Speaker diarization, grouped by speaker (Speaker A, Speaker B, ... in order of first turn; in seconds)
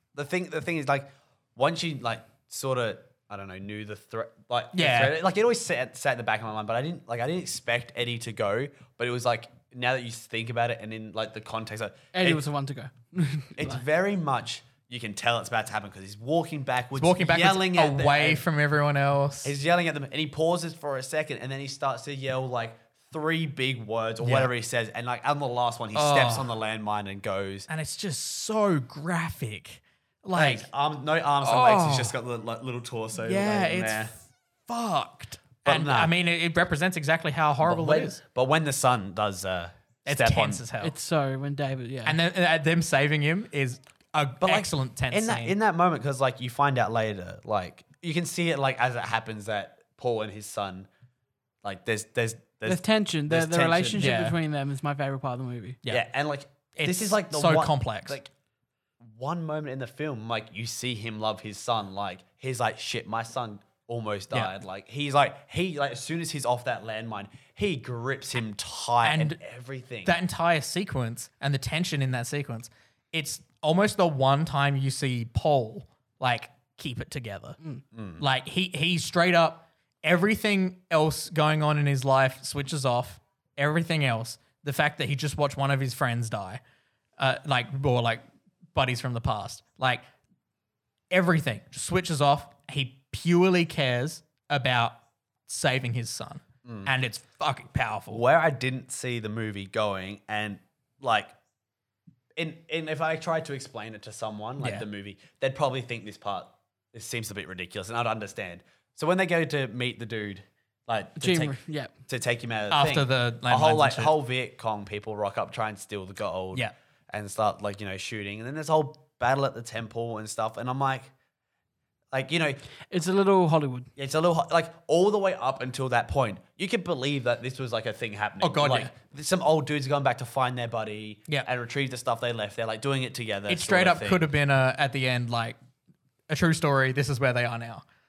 Speaker A: 0.1-12.4, 13.6-18.4, 19.4-27.7, 30.4-34.1, 35.6-36.1, 37.6-40.6, 44.4-50.9, 51.6-54.2, 55.9-58.3, 59.0-70.1, 77.9-78.2, 96.7-96.9, 98.1-101.3, 102.4-121.1, 122.1-122.6, 124.0-134.3
Speaker B: 4.7-5.1, 17.0-19.5, 24.2-24.5, 25.9-26.5, 27.7-30.7, 31.4-32.1, 33.1-38.2, 40.1-40.9, 42.1-45.5, 54.0-54.4, 56.8-58.2, 69.0-69.4, 70.0-77.6, 78.2-86.6, 87.2-88.2, 88.7-90.0, 91.1-95.0, 95.5-98.2, 104.6-104.9, 112.7-114.1, 128.4-128.9, 133.5-135.6, 136.3-137.8
Speaker C: 12.1-13.8, 40.8-42.2, 52.6-55.8, 111.2-111.9, 122.9-123.9